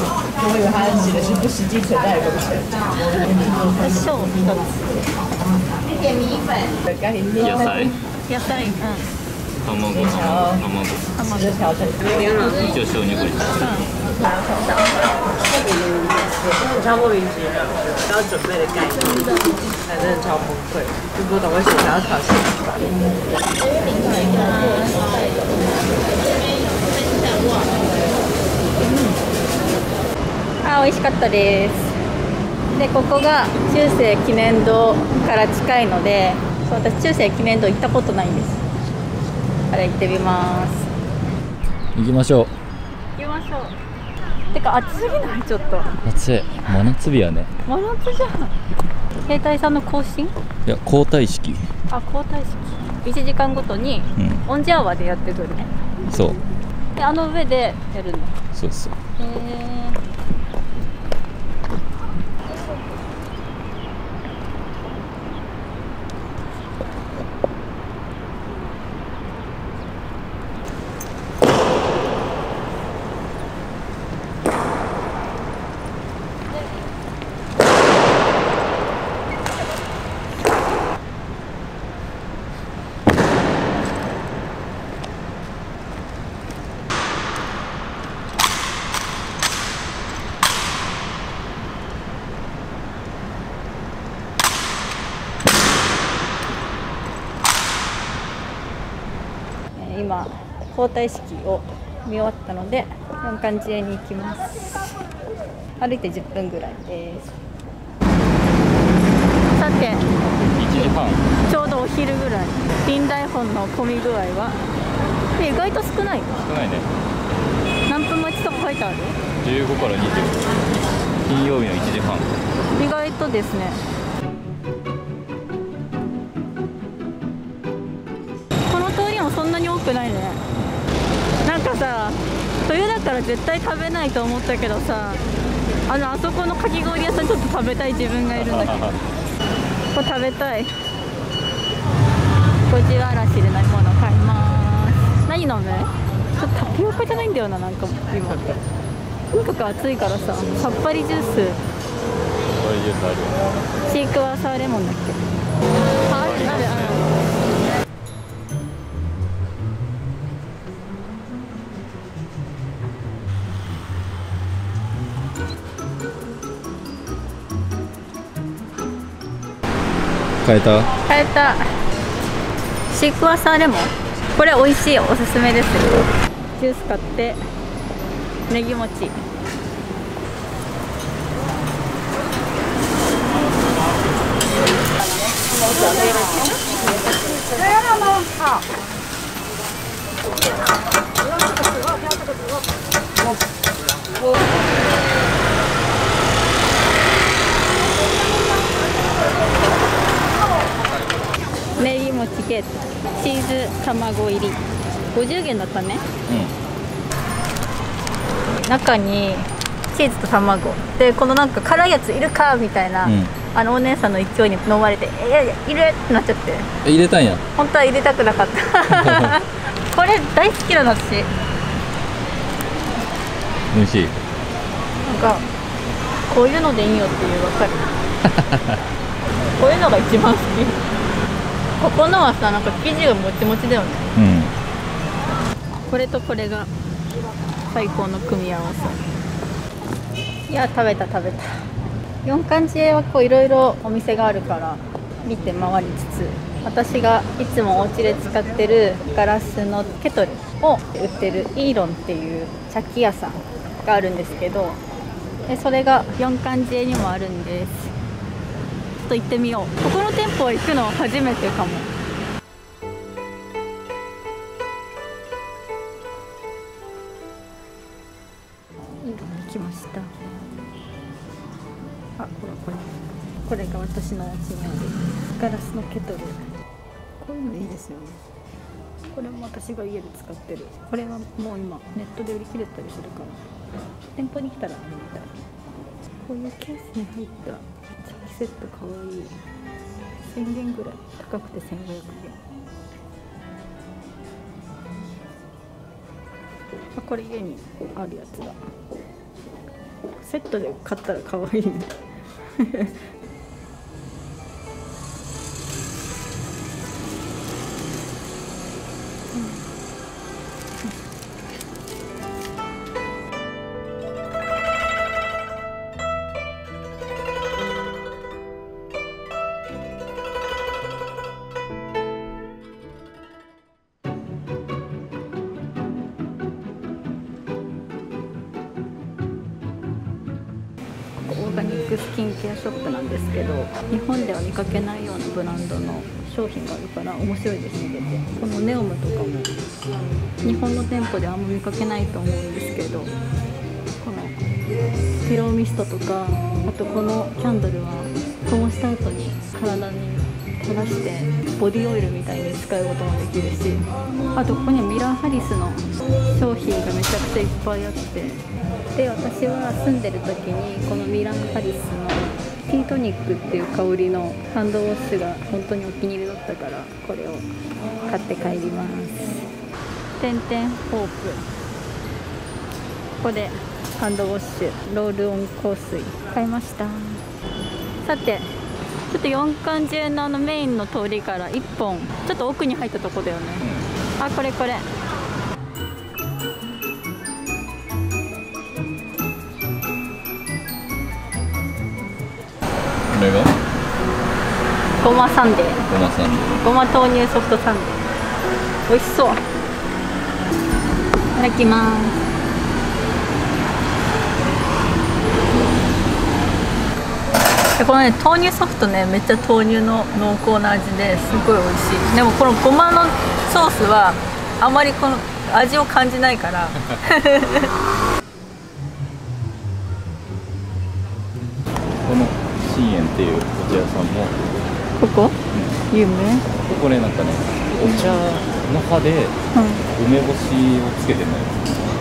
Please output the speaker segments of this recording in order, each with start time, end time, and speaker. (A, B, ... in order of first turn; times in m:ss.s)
0:00.6-0:01.4 A
0:03.7-0:05.0 A
0:05.9-0:09.1 A
0:07.4-0:07.9 B
0:09.6-0:11.2 B
0:11.2-0:12.7 A
0:12.5-0:13.8 B
0:13.6-0:15.1 A
0:16.6-0:18.9 C
0:18.9-0:19.7 A
0:19.9-0:22.5 C
0:23.8-0:25.8 A
0:28.8-0:29.2 A
0:30.6-0:31.9 A
0:32.7-0:38.6 A
0:39.7-0:40.9 A
0:41.9-0:42.5 B
0:43.2-0:43.7 A
0:44.5-0:46.0 A
0:46.0-0:47.5 B
0:47.6-0:48.5 A
0:49.3-0:50.4 A
0:50.6-0:51.6 B
0:51.9-0:55.7 A
0:54.2-0:54.4 B
0:56.1-0:56.4 B
0:57.0-0:58.4 A
0:58.5-0:59.0 B
0:59.2-1:00.0 A
1:39.7-1:44.9 A
1:45.8-1:47.3 A
1:49.5-1:50.0 A
1:50.2-1:51.3 B
1:51.4-1:54.6 A
1:55.3-1:56.3 A
1:56.4-1:56.9 B
1:57.9-1:59.2 A
1:59.4-2:02.3 B
2:02.7-2:03.8 A
2:08.7-2:10.4 A
2:10.5-2:10.8 B
2:11.4-2:15.2 A
2:15.9-2:18.9 A
2:18.4-2:19.0 B
2:19.9-2:20.7 A
2:22.6-2:28.6 A
2:29.3-2:31.6 A
2:32.5-2:33.4 B
2:33.9-2:35.2 A
2:36.0-2:37.0 B
2:36.0-2:37.1 A
2:50.4-2:50.9 B
2:51.0-2:51.6 A
2:52.9-2:57.4 A
2:58.5-2:59.2 A
3:05.0-3:06.7 A
3:21.8-3:26.0 A
3:26.3-3:26.5 B
3:28.5-3:36.7 A
3:33.0-3:33.3 B
3:36.8-3:37.4 B
3:37.6-3:41.3 A
3:38.9-3:39.3 B
3:43.7-3:44.1 B
3:45.0-3:45.4 A
3:46.3-3:47.9 A
3:48.2-3:48.8 B
3:49.6-3:50.8 A
3:51.8-3:54.1 A
3:54.2-3:54.5 B
3:55.9-3:56.7 A
3:57.7-3:59.0 A
4:00.5-4:01.6 A
4:02.2-4:14.8 A
4:15.5-4:17.9 A
4:19.0-4:21.9 A
4:29.0-4:30.1 A
4:32.2-4:36.6 A
4:37.2-4:38.2 A
4:39.1-4:43.4 A
4:44.2-4:45.3 A
4:46.2-4:49.4 A
4:50.3-4:52.4 A
4:56.9-4:58.6 A
5:00.2-5:01.9 A
5:02.6-5:02.9 A
5:09.3-5:09.6 A
5:31.2-5:39.5 A
5:40.4-5:43.1 A
5:44.0-5:44.4 A
5:45.2-5:58.4 A
5:58.9-6:07.5 A
6:08.0-6:09.5 A
6:10.2-6:11.4 A
6:13.2-6:17.2 A
6:18.0-6:18.5 A
6:19.1-6:23.6 A
6:23.6-6:23.9 B
6:24.2-6:24.9 A
6:33.1-6:33.5 B
6:35.0-6:35.8 A
6:35.9-6:36.6 B
6:36.6-6:38.0 A
6:38.9-6:39.4 A
6:41.3-6:42.2 A
6:47.8-6:57.7 A
7:02.0-7:04.4 B
7:05.0-7:05.4 A
7:05.5-7:05.8 B
7:05.9-7:06.5 A
7:06.6-7:09.4 B
7:07.7-7:08.2 A
7:09.5-7:09.8 A
7:10.0-7:11.6 B